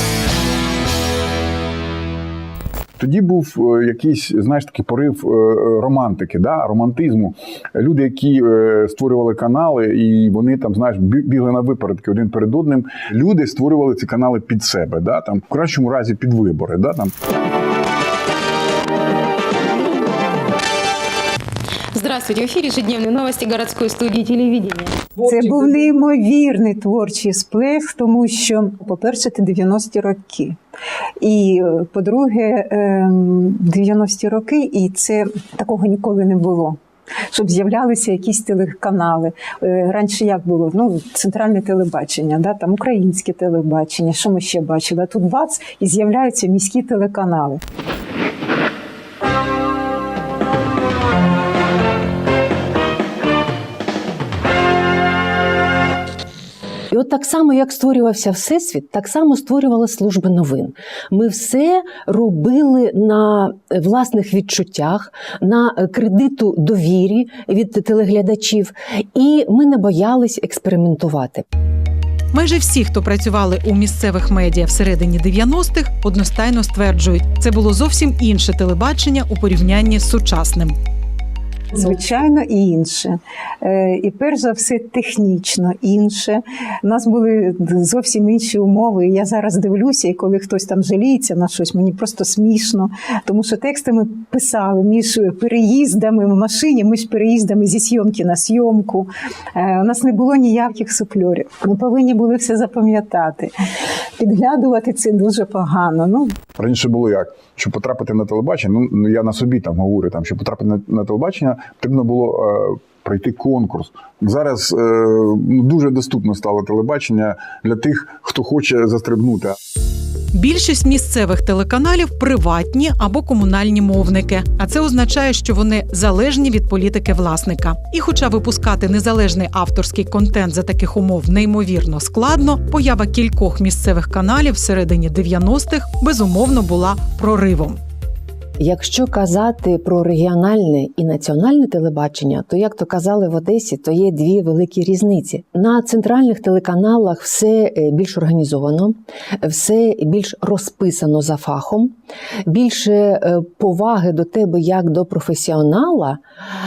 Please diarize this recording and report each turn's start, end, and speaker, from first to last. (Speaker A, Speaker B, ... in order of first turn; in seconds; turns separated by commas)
Speaker A: 3.0-17.1, Speaker B: 21.9-25.2, Speaker C: 25.2-30.6, Speaker C: 31.2-36.8, Speaker C: 37.3-47.6, Speaker D: 56.9-71.4, Speaker E: 72.3-80.7, Speaker C: 81.7-103.5, Speaker C: 104.2-106.4, Speaker A: 106.6-119.5, Speaker E: 120.3-137.8, Speaker D: 138.6-151.9, Speaker D: 152.4-156.2